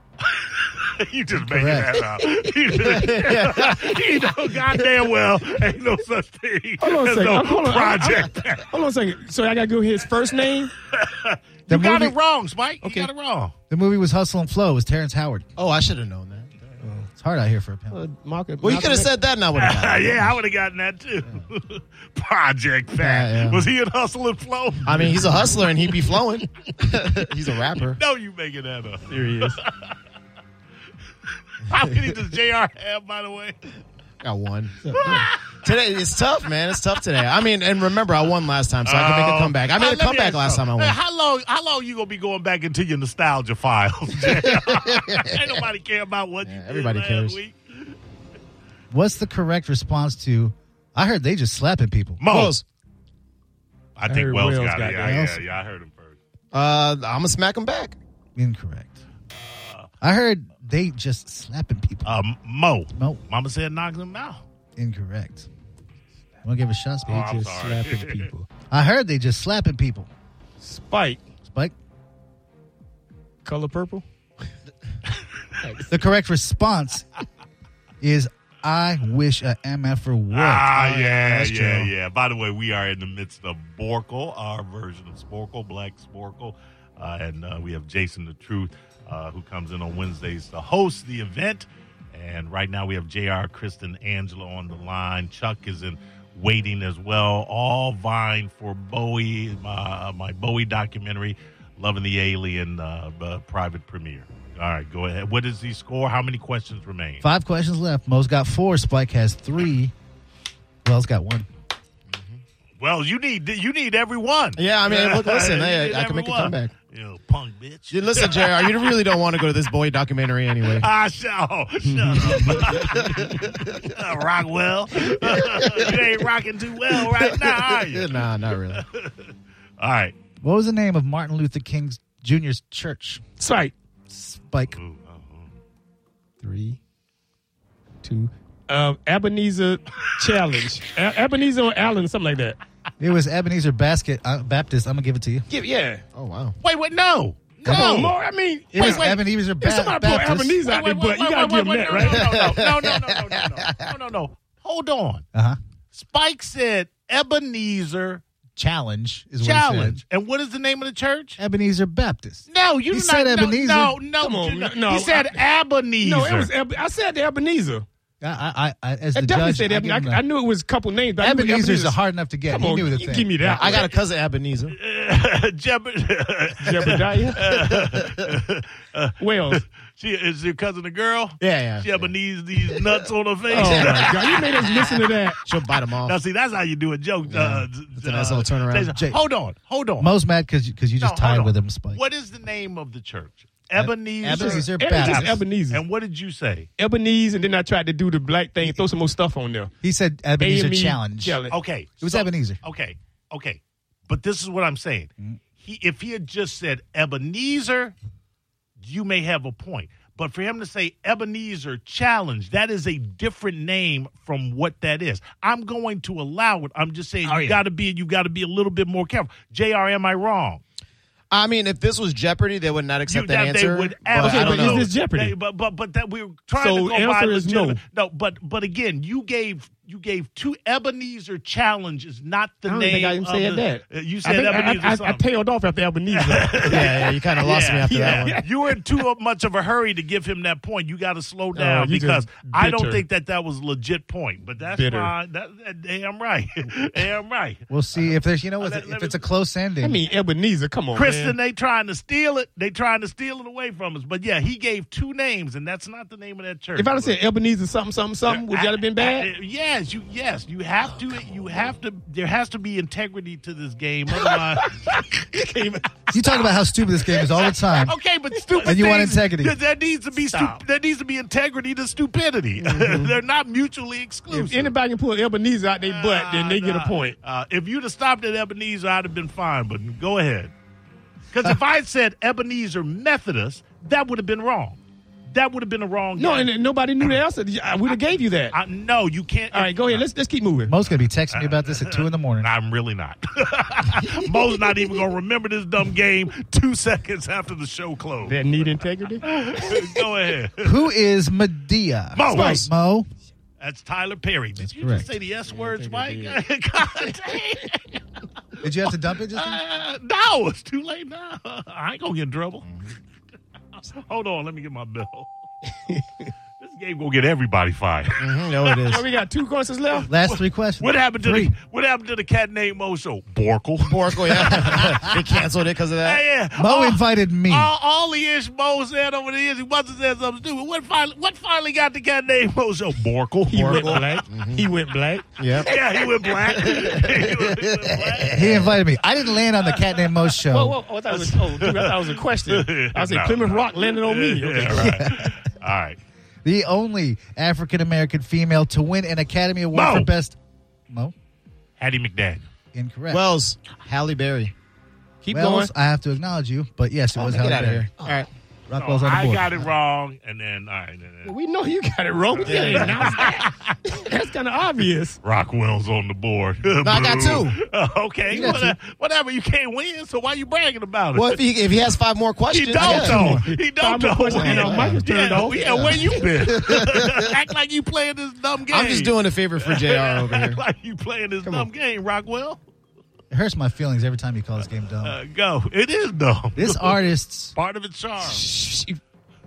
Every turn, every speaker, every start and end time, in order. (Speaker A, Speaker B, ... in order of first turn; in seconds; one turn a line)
Speaker A: 0.2-8.7
Speaker B: 1.3-2.0
Speaker C: 2.7-4.3
Speaker D: 6.8-10.7
Speaker A: 10.9-13.5
Speaker B: 11.7-12.2
Speaker D: 12.8-13.1
Speaker B: 13.7-15.5
Speaker C: 15.6-16.8
Speaker B: 16.9-18.0
Speaker D: 17.9-19.1
Speaker C: 18.6-20.4
Speaker A: 19.5-25.9
Speaker C: 22.9-23.7
Speaker C: 24.9-28.0
Speaker A: 27.8-29.9
Speaker D: 29.1-29.6
Speaker A: 31.5-33.6
Speaker C: 34.2-34.7
Speaker D: 34.8-35.3
Speaker A: 35.0-35.6
Speaker C: 35.6-41.0
Speaker A: 38.8-47.9
Speaker C: 44.3-45.2
Speaker C: 46.4-47.4
Speaker B: 48.9-52.2
Speaker A: 52.2-52.6
Speaker C: 52.3-52.6
Speaker A: 54.0-56.2
Speaker D: 54.0-55.3
Speaker B: 55.0-55.4
Speaker C: 56.5-58.0
Speaker B: 58.4-59.0
Speaker A: 59.3-59.9
Speaker B: 60.0-62.2
Speaker A: 62.0-64.4
Speaker B: 62.9-63.2
Speaker B: 64.8-65.5
Speaker B: 66.4-67.3
Speaker D: 67.0-68.5
Speaker A: 67.1-68.3
Speaker B: 68.7-70.1
Speaker D: 70.6-71.2
Speaker B: 71.4-71.7
Speaker D: 73.4-74.0
Speaker D: 75.6-76.0
Speaker B: 75.9-77.0
Speaker B: 78.0-80.7
Speaker A: 80.3-107.2
Speaker C: 80.7-81.9
Speaker B: 107.2-109.9
Speaker B: 110.8-111.5
Speaker C: 112.1-112.4
Speaker A: 112.8-119.0
Speaker C: 114.5-116.7
Speaker C: 117.9-120.9
Speaker A: 120.6-130.1
Speaker C: 122.2-123.8
Speaker C: 125.5-125.8
Speaker C: 127.0-128.8
Speaker B: 130.4-133.2
Speaker D: 133.4-133.7
Speaker B: 134.1-134.8
Speaker A: 134.7-135.5
Speaker D: 136.4-136.8
Speaker D: 138.0-142.6
Speaker B: 143.0-145.4
Speaker D: 145.5-146.0
Speaker C: 146.1-146.5
Speaker A: 146.6-148.2
Speaker D: 147.6-152.4
Speaker B: 148.7-150.6
Speaker A: 148.7-149.0
Speaker A: 150.6-155.2
Speaker C: 152.1-153.8
Speaker A: 155.9-158.2
Speaker B: 158.6-160.0
Speaker A: 159.4-161.4
Speaker B: 161.4-164.0
Speaker A: 162.5-166.5
Speaker D: 164.2-165.4
Speaker D: 166.0-167.8
Speaker B: 168.2-170.2
Speaker D: 169.1-173.9
Speaker B: 171.2-173.4
Speaker C: 173.4-174.7
Speaker A: 174.7-184.9
Speaker D: 176.6-177.4
Speaker C: 177.4-178.1
Speaker D: 179.2-179.6
Speaker C: 181.4-182.1
Speaker D: 183.5-185.4
Speaker C: 183.5-184.3
Speaker C: 185.4-186.2
Speaker A: 186.0-190.1
Speaker C: 187.2-188.9
Speaker B: 190.0-192.0
Speaker A: 191.0-196.7
Speaker B: 194.2-195.4
Speaker D: 194.2-195.8
Speaker D: 196.8-199.7
Speaker B: 199.8-201.4
Speaker D: 200.4-201.5
Speaker A: 201.5-207.9
Speaker B: 202.0-202.6
Speaker A: 208.8-220.6
Speaker D: 217.2-217.6
Speaker C: 221.3-224.9
Speaker A: 223.1-235.2
Speaker D: 224.2-225.3
Speaker D: 226.6-227.8
Speaker D: 232.7-237.0
Speaker A: 236.1-249.2
Speaker C: 236.7-238.3
Speaker D: 237.8-238.5
Speaker D: 241.5-243.0
Speaker D: 244.7-245.1
Speaker B: 247.7-250.0
Speaker D: 249.8-251.3
Speaker A: 250.9-257.2
Speaker D: 256.7-259.3
Speaker A: 258.3-265.6
Speaker D: 264.1-266.1
Speaker B: 266.1-267.9
Speaker A: 267.1-274.7
Speaker D: 268.5-268.8
Speaker B: 268.6-269.6
Speaker D: 272.6-273.1
Speaker D: 274.3-277.1
Speaker A: 275.8-280.5
Speaker A: 281.3-287.2
Speaker D: 286.2-288.6
Speaker A: 288.5-290.1
Speaker D: 289.5-290.7
Speaker B: 290.7-292.5
Speaker A: 290.9-298.6
Speaker D: 298.2-299.9
Speaker A: 299.2-300.9
Speaker B: 300.6-303.1
Speaker A: 302.1-302.6
Speaker C: 302.3-302.6
Speaker A: 303.6-308.0
Speaker B: 304.6-305.1
Speaker D: 305.5-306.4
Speaker A: 308.6-312.7
Speaker B: 308.6-309.6
Speaker C: 312.6-312.9
Speaker A: 313.8-315.3
Speaker A: 316.6-319.0
Speaker C: 318.2-319.0
Speaker D: 318.9-320.1
Speaker A: 319.9-325.0
Speaker B: 320.1-321.5
Speaker C: 323.8-326.2
Speaker A: 326.0-334.2
Speaker B: 326.6-327.7
Speaker D: 333.5-336.0
Speaker C: 333.7-334.6
Speaker C: 335.4-335.7
Speaker A: 335.6-338.8
Speaker C: 336.5-338.8
Speaker B: 338.3-340.8
Speaker A: 339.6-340.1
Speaker D: 340.5-345.0
Speaker A: 341.1-346.0
Speaker B: 344.7-345.4
Speaker B: 346.4-350.4
Speaker A: 349.7-350.1
Speaker A: 351.8-352.5
Speaker B: 352.7-353.3
Speaker C: 353.1-354.5
Speaker D: 355.2-355.7
Speaker B: 355.3-357.9
Speaker C: 357.1-358.3
Speaker B: 358.7-359.7
Speaker A: 358.7-361.3
Speaker D: 361.2-365.2
Speaker A: 362.4-363.7
Speaker C: 362.4-363.1
Speaker A: 365.2-371.4
Speaker C: 366.8-367.6
Speaker B: 368.3-368.7
Speaker C: 371.1-373.4
Speaker A: 372.5-382.6
Speaker B: 372.8-373.6
Speaker D: 373.8-376.2
Speaker C: 374.3-375.0
Speaker C: 375.7-377.2
Speaker C: 378.7-380.6
Speaker B: 383.3-385.2
Speaker A: 384.6-388.4
Speaker B: 386.5-387.5
Speaker D: 388.2-389.0